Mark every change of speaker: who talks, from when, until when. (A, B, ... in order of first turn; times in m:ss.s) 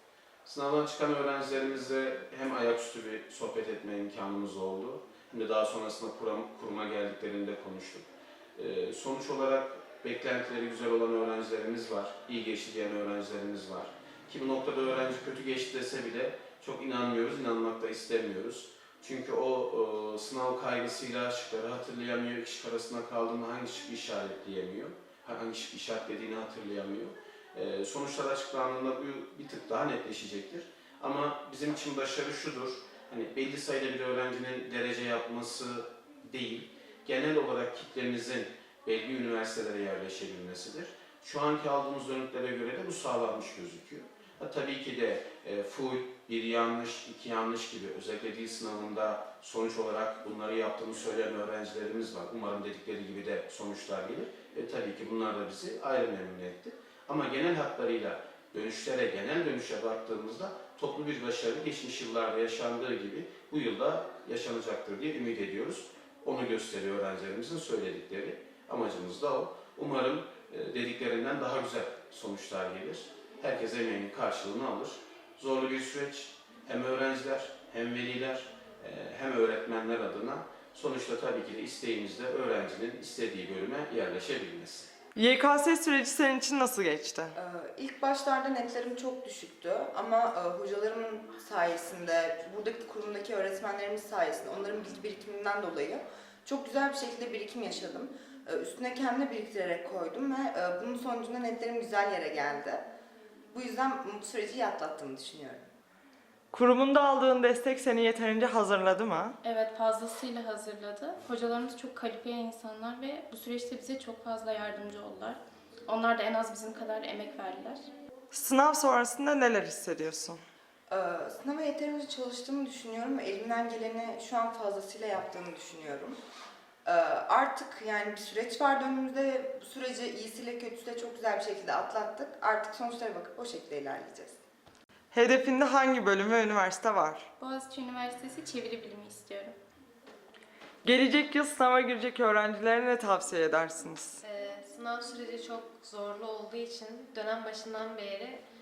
0:00.4-1:24.9 A
1:25.2-1:27.4 B
1:27.4-1:42.8 C
1:43.5-1:45.6 C
1:46.5-1:49.4 B
1:49.4-1:57.8 D
1:58.3-2:00.4 B
2:00.9-2:06.2 C
2:06.8-2:14.4 C
2:15.1-2:17.3 B
2:17.4-2:19.6 D
2:20.8-2:24.2 B
2:24.2-2:28.4 E